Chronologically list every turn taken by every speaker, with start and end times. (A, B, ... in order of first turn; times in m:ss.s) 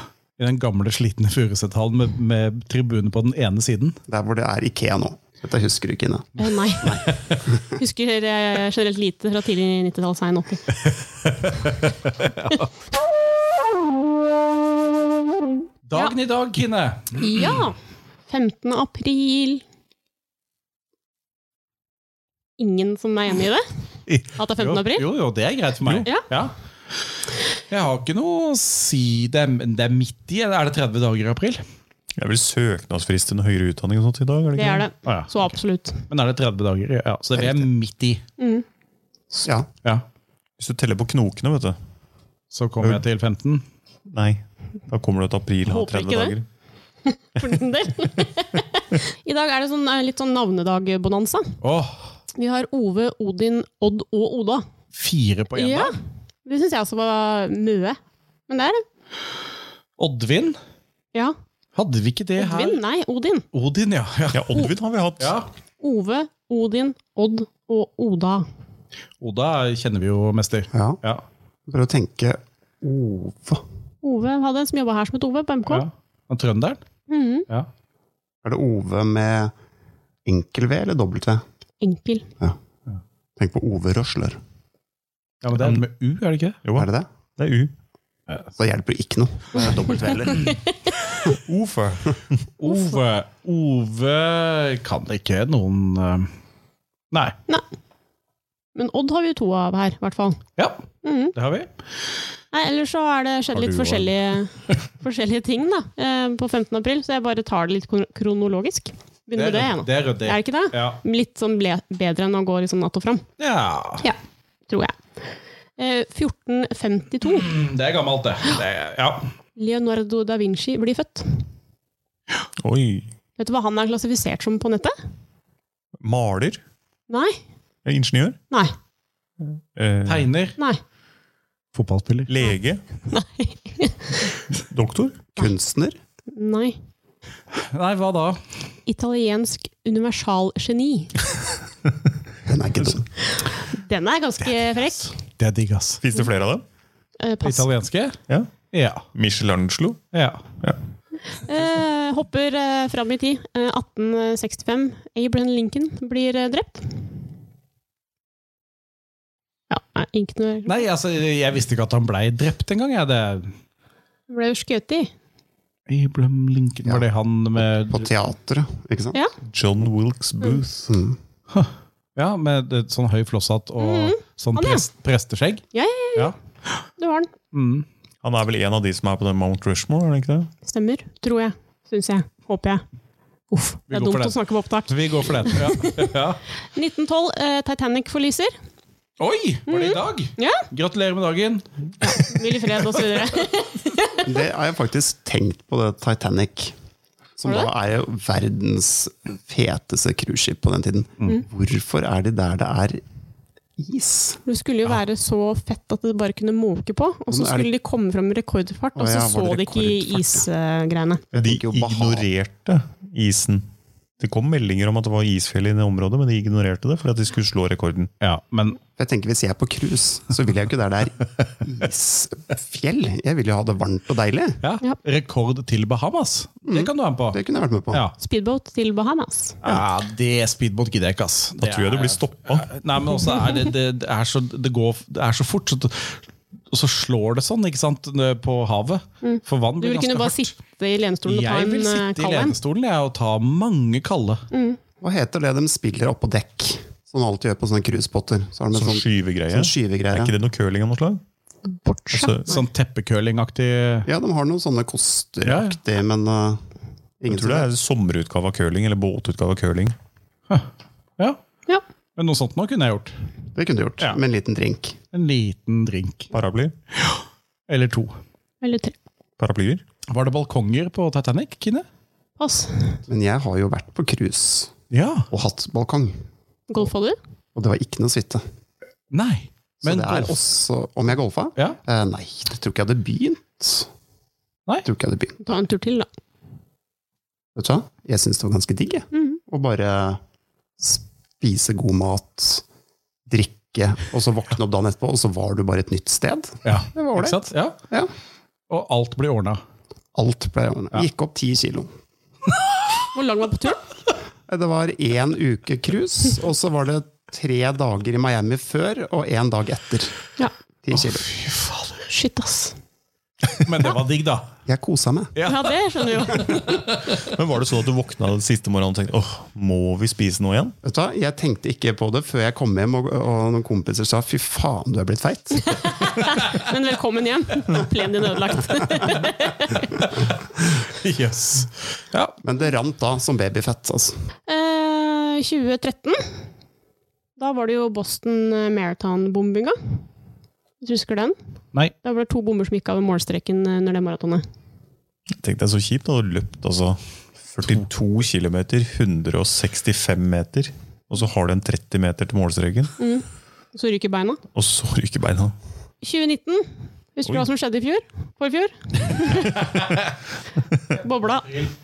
0:00.4-0:04.0 A
0:04.1-0:07.7 B
0:06.4-0:10.6 C
0:10.8-0:12.7 A
0:15.9-0:17.6 A
0:17.2-0:17.8 C
0:18.3-0:19.6 C
0:22.6-0:23.6 C
0:24.1-0:26.5 A
0:24.4-0:25.1 C
0:27.7-0:31.6 A
0:32.2-0:34.8 D
0:34.6-0:36.0 C
0:35.0-0:35.3 A
0:36.1-0:38.2 A
0:37.4-0:37.6 B
0:38.4-0:38.6 C
0:40.6-0:41.8 D
0:42.5-0:43.6 A
0:44.1-0:46.4 D
0:45.6-0:46.3 C
0:47.0-0:51.6 C
0:51.6-0:52.1 A
0:52.3-0:54.6 C
0:54.9-0:55.9 A
0:55.5-0:55.9 C
0:56.4-0:58.0 C
0:58.5-0:58.8 C
1:00.0-1:00.6 A
1:01.7-1:02.8 A
1:02.4-1:03.4 C
1:03.5-1:05.5 A
1:04.3-1:05.4 D
1:05.8-1:08.5 C
1:09.2-1:11.2 A
1:10.7-1:11.0 B
1:11.7-1:13.6 B
1:14.0-1:15.8 C
1:15.7-1:16.8 A
1:17.1-1:17.5 C
1:18.4-1:19.5 B
1:20.2-1:21.4 B
1:21.8-1:22.3 C
1:23.4-1:24.4 B
1:25.4-1:26.6 A
1:25.6-1:25.8 D
1:26.6-1:27.7 D
1:26.7-1:27.1 B
1:28.6-1:30.6 B
1:31.3-1:32.4 D
1:32.6-1:36.3 A
1:32.7-1:33.0 C
1:38.7-1:40.4 C
1:40.6-1:41.7 A
1:41.0-1:41.3 C
1:42.5-1:53.3 C
1:43.5-1:44.1 A
1:49.3-1:51.0 A
1:53.4-1:54.0 A
1:54.7-1:55.0 C
1:55.8-1:57.5 C
1:57.2-1:59.3 A
1:59.6-2:01.4 C
2:02.6-2:03.1 D
2:03.4-2:04.9 C
2:06.0-2:06.6 D
2:07.1-2:07.4 C
2:07.8-2:08.4 D
2:09.8-2:10.3 D
2:10.0-2:10.6 A
2:11.7-2:12.3 A
2:12.3-2:12.8 D
2:13.1-2:14.4 C
2:14.5-2:15.3 D
2:15.4-2:16.0 B
2:16.3-2:16.8 C
2:17.5-2:18.4 A
2:18.8-2:21.3 C
2:22.4-2:23.1 B
2:23.3-2:25.1 C
2:24.4-2:26.0 A
2:26.0-2:26.6 D
2:27.2-2:27.7 C
2:27.4-2:28.2 A
2:28.7-2:29.0 A
2:29.1-2:30.0 D
2:30.1-2:30.4 A
2:31.4-2:37.1 C
2:39.7-2:40.8 C
2:40.6-2:43.5 A
2:44.3-2:45.1 C
2:45.9-2:48.1 A
2:47.8-2:49.2 B
2:49.5-2:50.9 D
2:50.9-2:51.2 B
2:51.5-2:55.6 A
2:53.8-2:54.8 C
2:55.7-2:56.3 C
2:56.1-2:56.8 A
2:57.0-2:57.3 C
2:57.5-2:57.8 A
2:58.2-3:00.5 D
3:00.6-3:02.8 C
3:03.5-3:06.2 C
3:03.9-3:06.4 A
3:06.7-3:08.5 C
3:09.2-3:13.2 A
3:09.7-3:10.6 C
3:12.0-3:14.4 C
3:14.2-3:16.7 B
3:17.4-3:23.0 B
3:17.4-3:17.7 C
3:23.8-3:24.4 B
3:24.4-3:31.2 C
3:27.3-3:27.7 B
3:29.0-3:30.5 B
3:31.3-3:32.2 B
3:31.3-3:33.6 D
3:34.2-3:38.1 D
3:38.2-3:38.8 A
3:39.0-3:44.6 B
3:44.6-3:47.4 A
3:46.7-3:48.0 B
3:48.2-3:49.6 C
3:49.6-4:00.5 A
3:51.6-3:52.7 D
3:59.2-4:02.6 C
4:01.2-4:04.5 A
4:04.5-4:04.8 C
4:05.0-4:10.3 B
4:08.7-4:11.2 D
4:11.7-4:12.6 C
4:12.1-4:12.5 D
4:12.4-4:14.1 A
4:14.0-4:16.6 B
4:15.4-4:15.8 A
4:17.2-4:17.7 B
4:17.3-4:19.9 D
4:22.2-4:23.2 A
4:23.5-4:25.0 B
4:25.1-4:26.3 A
4:26.3-4:26.7 D
4:26.9-4:28.2 A
4:28.6-4:28.9 C
4:29.4-4:29.8 D
4:30.1-4:31.8 A
4:32.4-4:33.0 C
4:33.1-4:34.7 B
4:34.9-4:35.3 A
4:35.3-4:36.2 B
4:36.7-4:37.2 C
4:37.5-4:38.4 B
4:39.1-4:40.4 A
4:39.8-4:43.9 B
4:44.8-4:45.4 B
4:45.4-4:46.1 C
4:47.5-4:50.2 B
4:49.1-4:49.4 C
4:50.8-4:52.6 B
4:53.3-4:58.1 B
4:56.6-4:57.8 A
4:58.7-4:59.6 A
5:00.1-5:01.9 B
5:03.1-5:03.8 C
5:04.5-5:10.1 B
5:10.8-5:11.3 B
5:10.9-5:12.1 A
5:12.1-5:12.8 C
5:13.6-5:14.5 A
5:14.6-5:15.3 B
5:15.3-5:15.8 A
5:15.4-5:16.9 C
5:16.3-5:17.2 A
5:17.0-5:20.8 D
5:20.8-5:25.9 B
5:25.6-5:30.0 C
5:30.8-5:32.4 A
5:32.4-5:34.1 B
5:34.5-5:36.4 C
5:37.4-5:40.0 C
5:40.8-5:41.4 C
5:42.0-5:44.4 C
5:45.3-5:52.9 D
5:53.0-5:54.4 C
5:54.5-5:55.5 D
5:56.0-5:59.7 C
6:00.9-6:01.7 C